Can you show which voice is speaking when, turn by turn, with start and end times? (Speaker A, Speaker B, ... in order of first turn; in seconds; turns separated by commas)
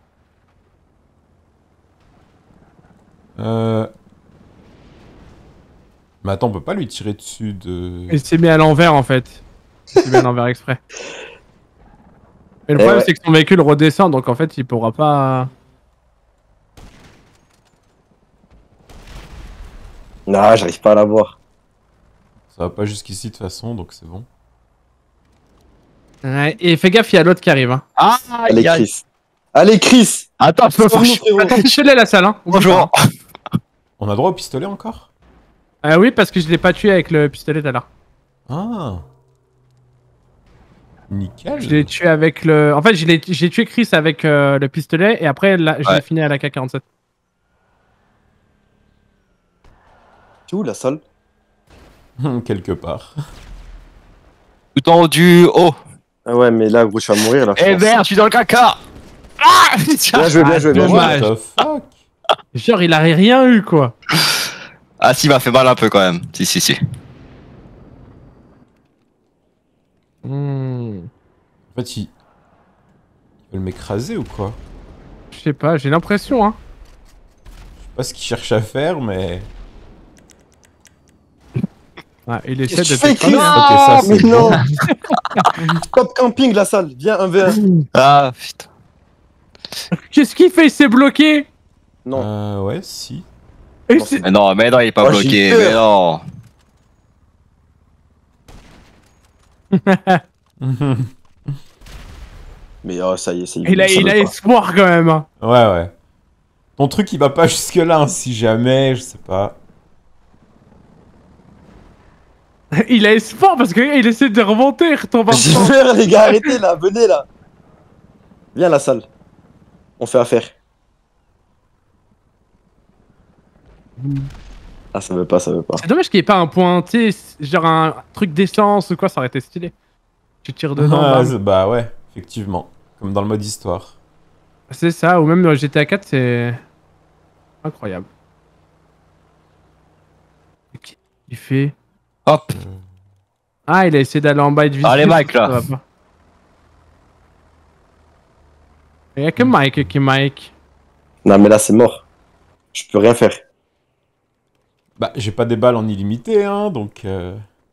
Speaker A: 3.4-3.9, Speaker A: 6.2-8.2, Speaker B: 8.1-9.4, Speaker B: 9.9-10.8, Speaker B: 12.7-15.5, Speaker C: 12.8-13.1, Speaker C: 20.3-21.4, Speaker A: 22.5-24.3, Speaker B: 26.2-27.8, Speaker D: 28.0-28.9, Speaker C: 28.5-29.0, Speaker C: 29.6-31.5, Speaker D: 30.4-31.8, Speaker B: 30.8-32.9, Speaker D: 32.5-33.0, Speaker A: 34.0-35.1, Speaker B: 35.8-37.9, Speaker A: 38.5-39.0, Speaker A: 41.1-41.9, Speaker B: 41.6-46.8, Speaker C: 50.5-51.0, Speaker A: 52.2-53.1, Speaker D: 54.8-55.8, Speaker C: 56.3-58.0, Speaker D: 57.6-58.8, Speaker D: 59.4-60.3, Speaker C: 60.1-61.2, Speaker B: 60.4-61.3, Speaker A: 60.7-61.9, Speaker B: 62.5-63.9, Speaker D: 65.0-66.8, Speaker B: 70.2-71.1, Speaker A: 71.8-72.1, Speaker A: 73.5-74.6, Speaker B: 75.3-76.6, Speaker A: 77.9-79.5, Speaker B: 82.3-83.6, Speaker C: 82.7-84.6, Speaker D: 83.3-84.6, Speaker A: 83.5-84.6, Speaker B: 84.9-85.4, Speaker C: 85.9-87.6, Speaker D: 87.5-88.7, Speaker B: 89.9-91.5, Speaker A: 92.2-93.2, Speaker B: 93.9-94.2, Speaker C: 93.9-94.2, Speaker D: 94.2-96.2, Speaker C: 95.0-95.8, Speaker B: 99.7-100.2, Speaker A: 100.6-101.6, Speaker C: 102.8-104.3, Speaker B: 103.7-105.3, Speaker A: 105.4-105.9, Speaker A: 106.8-109.6, Speaker B: 112.8-115.8, Speaker C: 115.3-117.3, Speaker C: 118.5-119.0, Speaker C: 120.0-120.5, Speaker B: 124.0-124.3, Speaker C: 124.9-125.8, Speaker B: 125.8-129.7, Speaker B: 130.4-131.3, Speaker A: 130.8-133.9, Speaker B: 134.7-136.6, Speaker B: 137.6-138.1, Speaker B: 140.7-141.7, Speaker D: 142.3-142.6, Speaker A: 142.5-142.8, Speaker B: 143.7-145.8, Speaker D: 144.8-145.6, Speaker B: 149.2-150.5, Speaker C: 151.2-152.0, Speaker C: 152.7-153.4, Speaker A: 155.0-157.4